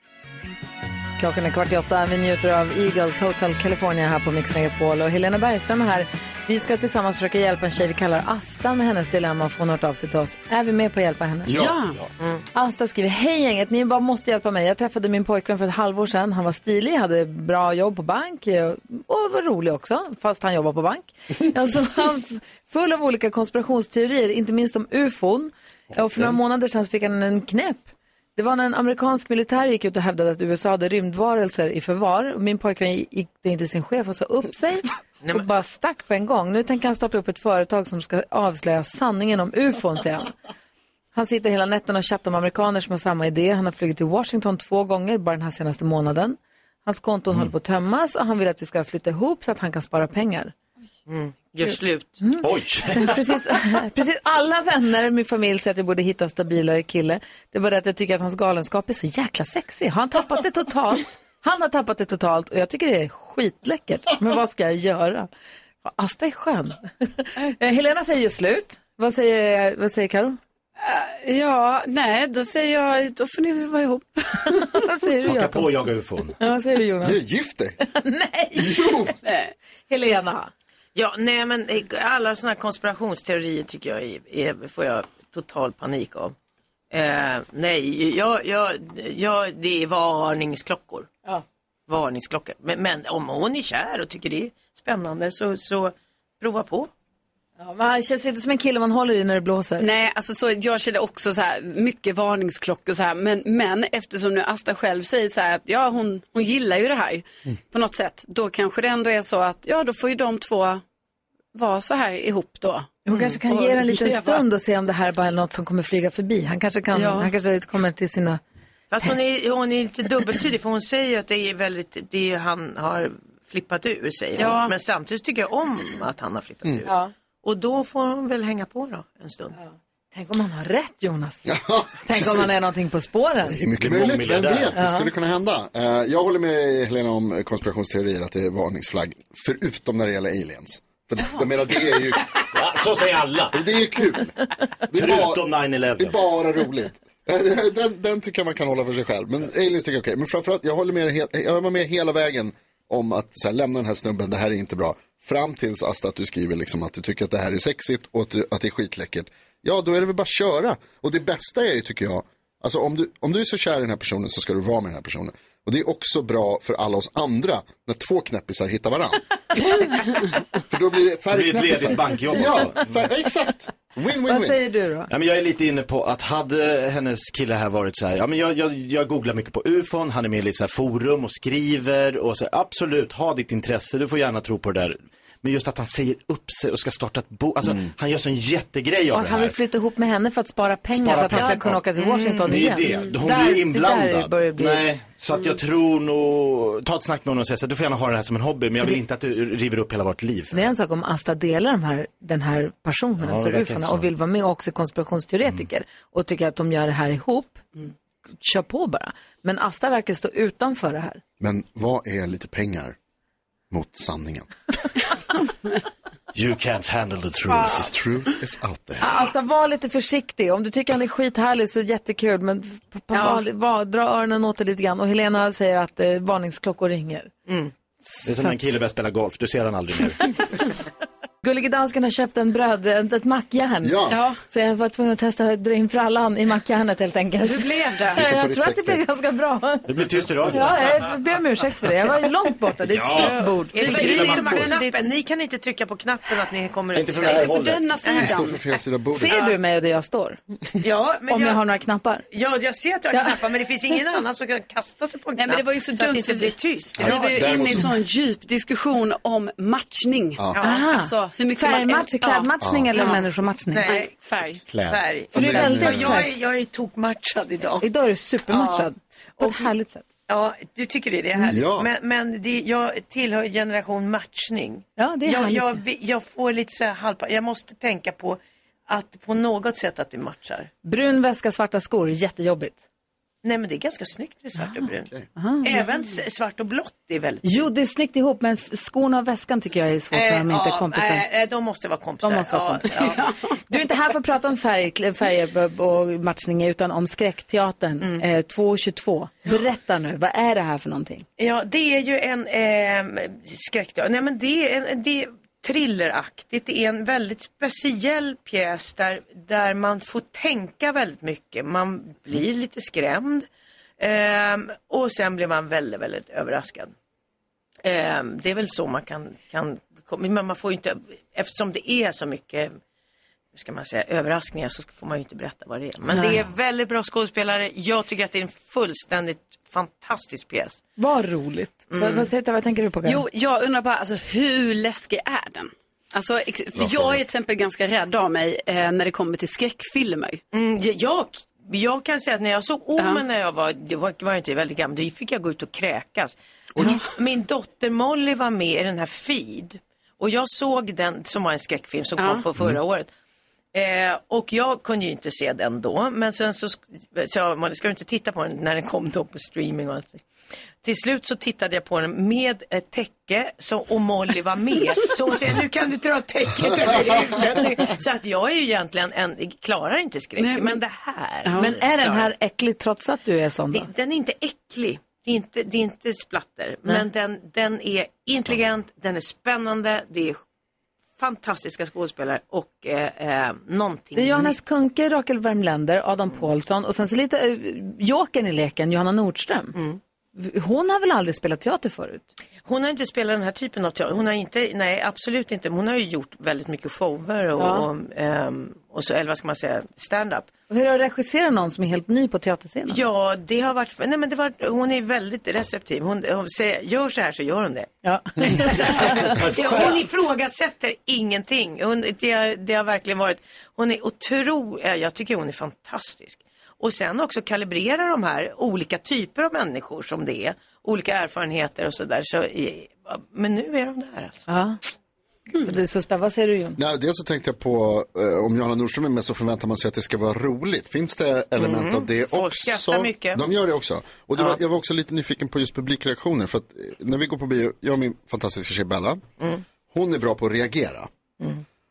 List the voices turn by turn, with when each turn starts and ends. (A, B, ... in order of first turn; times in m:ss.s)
0:01.2-0:11.6 A
0:11.5-0:11.8 B
0:11.5-0:12.0 C
0:12.5-0:40.3 A
0:35.2-0:35.5 D
0:41.1-0:50.5 A
0:51.1-0:52.2 D
0:52.2-1:05.3 A
0:52.4-0:53.2 E
1:05.8-1:10.4 A
1:10.8-1:14.8 C
1:14.5-1:15.7 A
1:15.2-1:16.4 E
1:16.4-1:17.2 A
1:17.0-1:17.8 B
1:17.9-1:19.1 A
1:18.6-1:19.1 B
1:19.2-1:19.5 C
1:19.9-1:20.5 A
1:21.0-1:26.3 D
1:26.9-1:31.1 D
1:31.9-1:36.9 D
1:37.6-1:39.9 A
1:39.8-1:50.8 C
1:51.5-1:54.4 C
1:53.1-1:58.4 A
1:53.1-1:53.4 D
1:56.9-1:57.3 C
1:58.9-2:09.6 D
2:04.4-2:04.7 C
2:06.8-2:07.1 A
2:09.6-2:13.6 A
2:11.5-2:12.6 B
2:13.5-2:22.4 B
2:13.8-2:14.8 E
2:14.8-2:15.1 A
2:22.4-2:23.7 E
2:23.5-2:25.5 B
2:24.9-2:26.2 E
2:26.0-2:49.2 B
2:50.7-2:54.6 B
2:51.3-2:53.0 E
2:54.3-2:55.1 A
2:55.1-3:09.6 E
3:09.1-3:14.9 A
3:10.9-3:11.9 E
3:12.0-3:12.5 D
3:12.4-3:20.6 E
3:20.5-3:27.6 A
3:23.2-3:24.1 E
3:28.4-3:31.2 A
3:31.4-3:33.0 B
3:33.7-3:34.5 B
3:36.3-3:37.9 E
3:37.8-3:39.2 B
3:39.0-3:47.3 A
3:43.1-3:43.4 C
3:48.1-3:48.6 A
3:48.2-3:50.3 E
3:51.4-3:59.9 A
3:53.8-3:54.2 B
3:54.1-3:54.4 C
3:57.5-3:58.2 C
3:58.1-3:59.0 B
3:59.9-4:01.0 E
4:00.5-4:04.8 A
4:02.8-4:04.7 E
4:03.1-4:05.0 C
4:03.7-4:07.5 D
4:06.9-4:08.0 E
4:07.2-4:08.6 C
4:08.0-4:08.4 D
4:08.2-4:09.4 B
4:09.1-4:10.4 A
4:09.3-4:09.6 D
4:10.8-4:11.6 D
4:11.3-4:12.3 A
4:12.3-4:17.4 D
4:13.1-4:13.4 A
4:15.4-4:23.2 C
4:17.0-4:18.0 B
4:20.5-4:20.8 D
4:20.6-4:23.9 A
4:22.6-4:22.9 B
4:23.7-4:24.1 D
4:23.8-4:24.6 C
4:24.7-4:25.0 E
4:24.8-4:27.9 D
4:25.3-4:26.3 A
4:25.4-4:26.2 B
4:27.8-4:30.0 A
4:28.5-4:29.6 D
4:30.3-4:40.7 D
4:31.5-4:31.9 B
4:35.0-4:35.8 A
4:40.8-4:42.8 A
4:43.4-4:47.6 D
4:45.4-4:45.6 A
4:47.4-4:51.2 A
4:50.1-4:53.2 D
4:52.2-4:53.2 A
4:53.0-4:53.4 C
4:53.7-5:01.3 A
5:01.4-5:13.5 D
5:14.0-5:16.9 D
5:17.8-5:22.7 D
5:23.6-5:30.8 D
5:31.0-5:33.2 A
5:31.9-5:32.3 D
5:33.0-5:40.4 C
5:36.8-5:37.1 B
5:40.5-5:53.1 D
5:46.8-5:47.1 C
5:52.2-5:52.4 C
5:53.7-6:00.2 D
6:00.8-6:12.3 D
6:10.4-6:10.8 C
6:11.6-6:13.9 A
6:13.7-6:20.4 D
6:21.2-6:24.6 D
6:24.2-6:29.8 A
6:30.4-6:32.3 A
6:32.6-6:40.5 D
6:37.6-6:37.9 A
6:40.7-6:43.0 A
6:42.9-6:47.9 D
6:48.0-6:49.4 A
6:48.7-6:50.1 E
6:49.5-7:04.5 D
7:04.5-7:04.8 A
7:05.6-7:06.8 A
7:06.8-7:19.2 B
7:11.6-7:13.4 D
7:19.9-7:21.1 B